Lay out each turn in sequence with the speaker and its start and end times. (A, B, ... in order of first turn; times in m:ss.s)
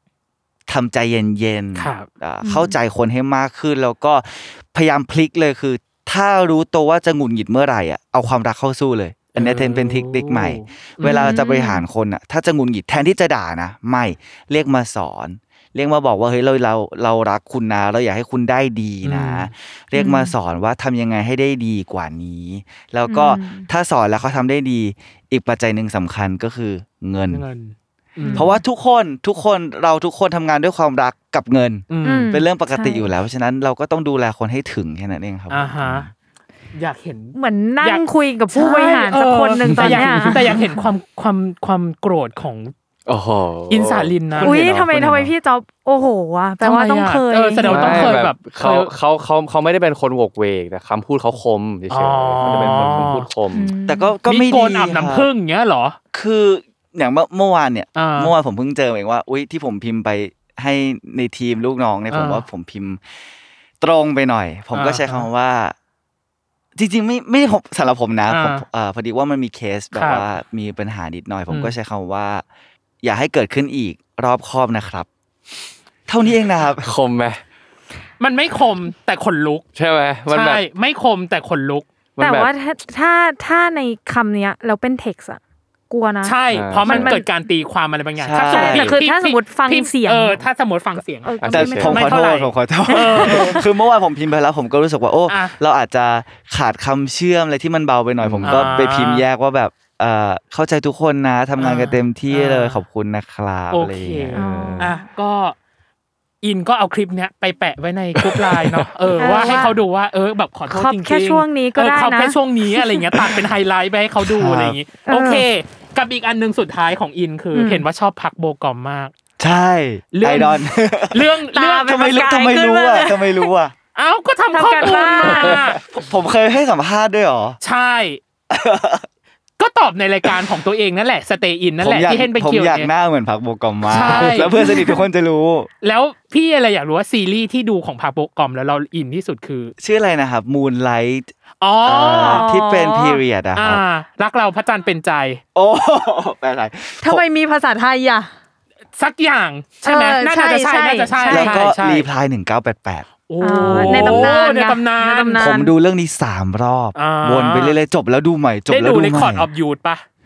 0:00.7-0:27.4 A
0:01.8-0:02.1 B
0:02.4-0:02.7 C
0:09.4-0:11.3 B
0:11.0-0:11.8 C
0:19.0-0:19.5 B
0:20.0-0:20.3 C
0:23.1-0:23.7 C
0:27.3-0:28.5 B
0:28.2-0:28.6 C
0:28.3-0:36.1 A
0:31.9-0:32.3 B
0:32.0-0:33.1 C
0:35.5-0:36.1 B
0:36.7-0:42.7 B
0:37.4-0:40.9 C
0:39.7-0:40.4 D
0:43.1-0:45.3 D
0:43.7-0:44.6 B
0:44.4-0:48.2 C
0:46.6-0:48.9 B
0:47.6-0:53.7 D
0:51.9-0:53.3 B
0:53.5-0:54.2 C
0:53.9-0:55.3 A
0:54.3-0:56.0 B
0:56.1-1:03.0 A
0:58.0-0:58.3 B
1:02.1-1:02.4 B
1:03.8-1:05.8 A
1:04.7-1:05.3 B
1:06.8-1:12.4 A
1:08.3-1:08.6 B
1:09.9-1:10.3 B
1:11.5-1:11.7 B
1:13.0-1:15.1 A
1:16.1-1:16.9 A
1:16.8-1:17.4 D
1:18.2-1:19.7 B
1:19.8-1:20.6 D
1:20.3-1:21.9 B
1:22.2-1:22.5 D
1:22.2-1:27.3 C
1:26.2-1:32.3 B
1:26.5-1:27.1 D
1:28.2-1:29.0 A
1:28.4-1:30.4 C
1:31.2-1:33.6 C
1:31.4-1:32.0 D
1:31.5-1:44.9 A
1:32.9-1:33.6 B
1:35.3-1:35.6 B
1:38.2-1:38.7 D
1:38.4-1:39.2 B
1:41.6-1:42.8 B
1:43.7-1:45.6 B
1:44.4-1:45.0 C
1:46.4-1:59.1 B
1:49.2-1:49.8 C
1:50.7-1:53.2 C
1:54.2-1:54.8 A
1:55.1-1:55.4 C
1:57.5-1:57.8 C
1:59.4-2:03.7 A
2:00.1-2:02.0 B
2:01.5-2:03.5 C
2:04.0-2:05.8 B
2:04.5-2:05.6 C
2:05.5-2:07.6 A
2:07.6-2:08.2 B
2:08.5-2:09.1 A
2:09.6-2:12.9 B
2:11.8-2:15.7 A
2:13.9-2:14.7 B
2:14.6-2:15.0 C
2:15.8-2:19.7 B
2:19.8-2:21.3 A
2:21.6-2:22.5 B
2:21.8-2:23.8 A
2:22.0-2:23.2 C
2:23.6-2:25.4 B
2:25.6-2:27.2 A
2:27.0-2:28.3 C
2:29.0-2:32.1 B
2:29.8-2:31.6 C
2:31.2-2:34.4 A
2:33.3-2:35.5 B
2:33.4-2:35.8 C
2:35.4-2:39.5 A
2:37.0-2:37.8 B
2:38.7-2:40.0 B